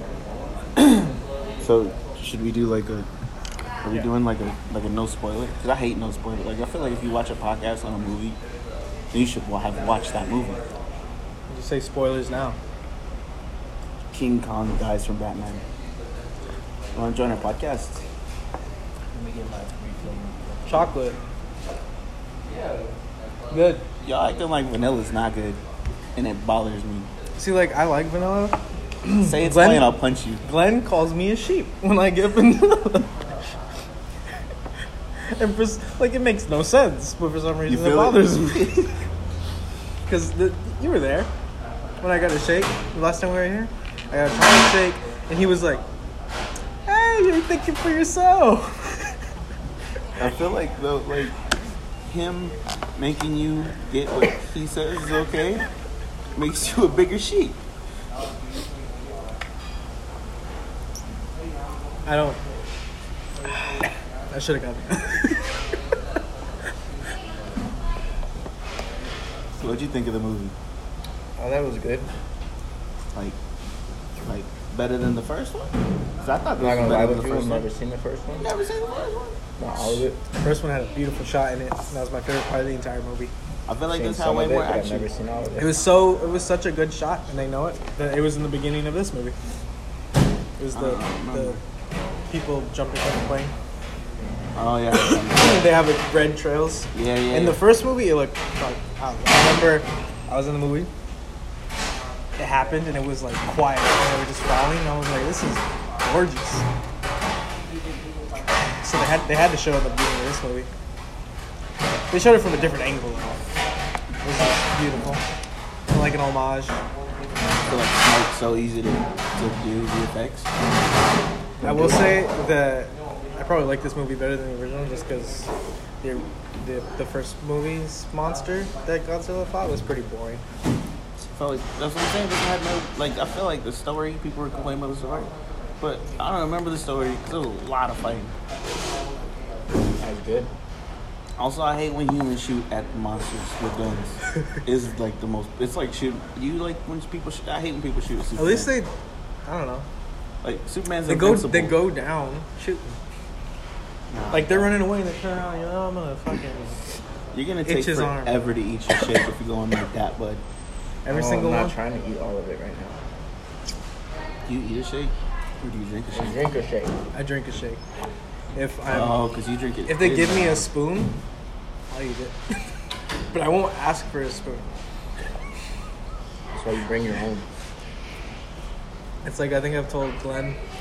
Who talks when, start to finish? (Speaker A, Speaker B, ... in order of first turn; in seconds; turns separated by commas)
Speaker A: 0.8-3.1, Speaker A: 3.8-8.4, Speaker A: 9.1-10.6, Speaker B: 11.5-12.6, Speaker A: 14.1-15.6, Speaker A: 16.9-18.0, Speaker C: 19.1-20.9, Speaker B: 20.6-21.2, Speaker B: 23.5-23.8, Speaker A: 24.0-25.6, Speaker A: 26.1-27.1, Speaker B: 27.4-33.1, Speaker A: 29.2-30.4, Speaker B: 35.3-39.0, Speaker A: 37.7-38.7, Speaker B: 40.0-41.3, Speaker B: 42.0-45.8, Speaker B: 46.9-49.1, Speaker A: 50.2-51.4, Speaker A: 52.0-55.6, Speaker A: 56.4-57.6, Speaker B: 62.0-62.4, Speaker B: 63.4-65.5, Speaker A: 69.5-70.5, Speaker C: 71.4-72.1, Speaker A: 74.2-77.7, Speaker C: 76.6-78.5, Speaker A: 78.4-80.0, Speaker C: 79.6-80.3, Speaker B: 80.4-83.3, Speaker A: 83.7-85.1, Speaker C: 83.9-85.8, Speaker B: 85.6-89.3, Speaker B: 90.6-91.6, Speaker A: 90.7-91.6, Speaker B: 92.3-93.5, Speaker A: 94.5-95.7, Speaker B: 95.0-100.9, Speaker A: 96.9-97.6, Speaker B: 102.4-106.6, Speaker B: 108.8-110.7, Speaker B: 112.1-113.4, Speaker B: 114.2-115.2, Speaker B: 115.9-116.8, Speaker A: 117.6-120.5, Speaker C: 121.6-122.1, Speaker B: 121.6-125.5, Speaker B: 126.0-130.4, Speaker A: 131.3-138.3, Speaker C: 140.0-140.5, Speaker A: 141.4-148.7, Speaker B: 148.4-148.9, Speaker B: 149.4-149.9, Speaker A: 150.4-151.7, Speaker B: 151.1-152.9, Speaker A: 154.1-154.7, Speaker B: 154.3-156.8, Speaker A: 157.3-160.4, Speaker B: 157.7-158.4, Speaker B: 161.0-161.8, Speaker C: 161.1-163.0, Speaker A: 164.4-166.4, Speaker C: 166.1-167.0, Speaker B: 167.1-167.8, Speaker B: 168.5-169.2, Speaker A: 168.9-170.7, Speaker B: 169.9-171.2, Speaker B: 171.9-172.4, Speaker B: 173.3-174.7, Speaker C: 176.5-177.5, Speaker B: 179.2-180.6